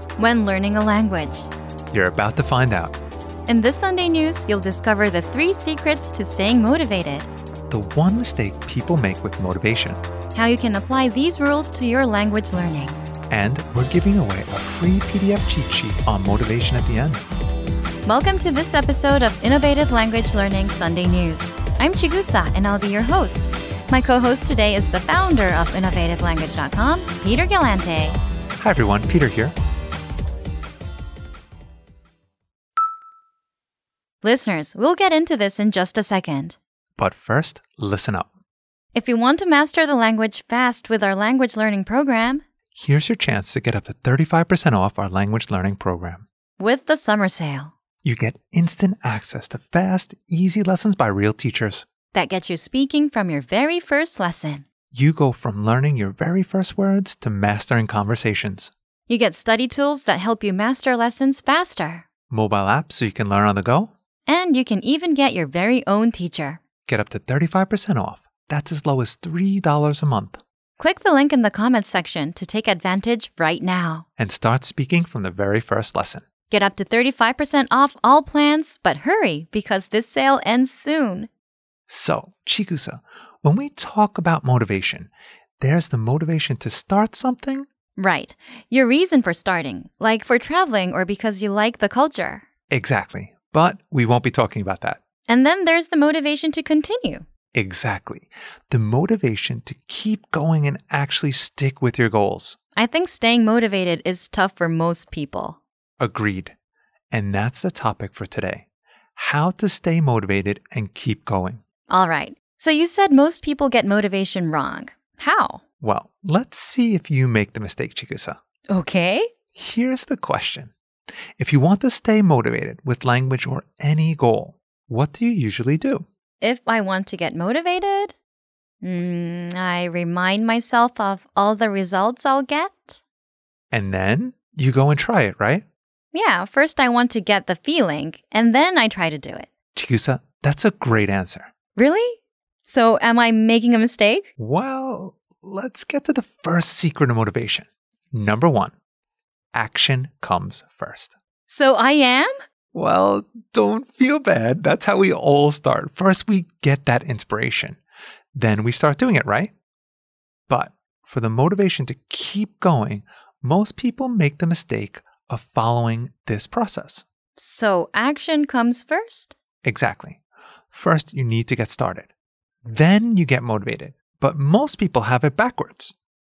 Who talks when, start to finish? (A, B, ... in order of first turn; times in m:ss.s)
0:00.2-0:01.5 A
0:01.9-0:03.0 B
0:03.5-0:07.3 A
0:07.7-0:10.0 B
0:10.3-0:13.0 A
0:13.3-0:17.2 B
0:18.0-0:28.2 A
0:28.6-0:29.5 B
0:34.2-0:36.6 A
0:37.0-0:38.3 B
0:38.9-0:42.4 A
0:42.7-0:46.2 B
0:46.6-0:47.7 A
0:48.0-0:51.8 B
0:52.1-0:54.6 A
0:54.9-0:58.7 B
0:59.1-1:02.0 A
1:02.3-1:03.9 B
1:04.2-1:06.6 A
1:06.9-1:10.4 B
1:10.8-1:14.0 A
1:14.2-1:16.2 B
1:16.5-1:21.3 A
1:21.9-1:27.7 B
1:28.0-1:32.4 A
1:32.7-1:35.0 B
1:35.3-1:37.2 A
1:37.5-1:42.6 B
1:42.8-1:45.6 A
1:46.0-1:46.5 B
1:47.1-1:51.6 B
1:51.9-1:55.6 A
1:55.8-1:58.4 B
1:58.7-1:59.3 A
1:59.5-2:00.7 B
2:01.4-2:06.0 B
2:06.4-2:08.1 A
2:08.8-2:13.0 A
2:13.7-2:15.6 B
2:16.1-2:19.5 A
2:19.7-2:21.5 B
2:21.8-2:24.3 A
2:24.4-2:28.7 B
2:29.5-2:31.1 B
2:31.5-2:32.3 A
2:32.7-2:37.8 B
2:38.3-2:39.5 B
2:40.5-2:47.0 B
2:47.4-2:49.3 A
2:49.6-2:50.2 B
2:50.7-2:52.1 B
2:52.7-2:55.9 B